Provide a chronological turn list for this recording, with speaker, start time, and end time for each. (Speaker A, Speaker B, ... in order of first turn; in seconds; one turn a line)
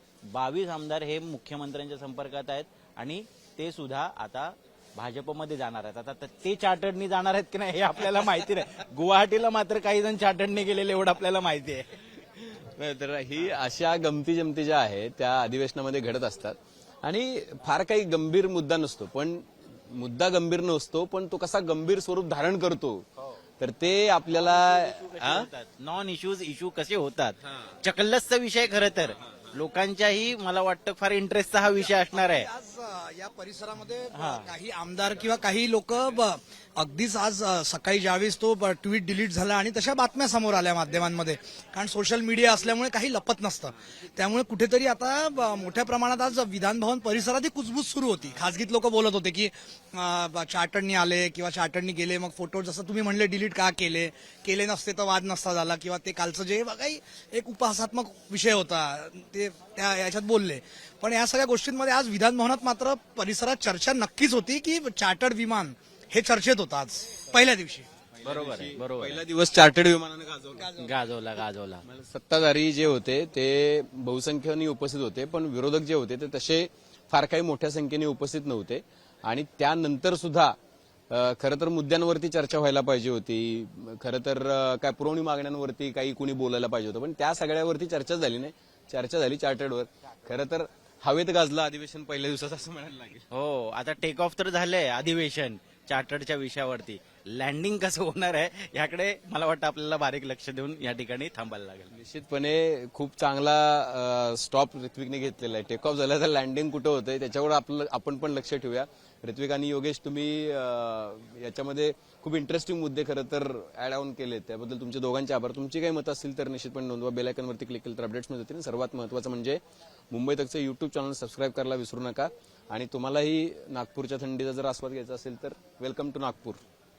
Speaker A: 0.3-11.8
Speaker B: 12.4-23.0
Speaker B: 23.6-25.5
Speaker A: 25.1-31.8
Speaker C: 31.8-67.9
Speaker B: 68.2-70.7
Speaker A: 68.3-69.1
Speaker C: 70.5-71.0
Speaker A: 70.9-71.8
Speaker B: 71.8-80.5
Speaker B: 81.1-93.2
Speaker A: 93.5-101.9
Speaker B: 101.9-126.6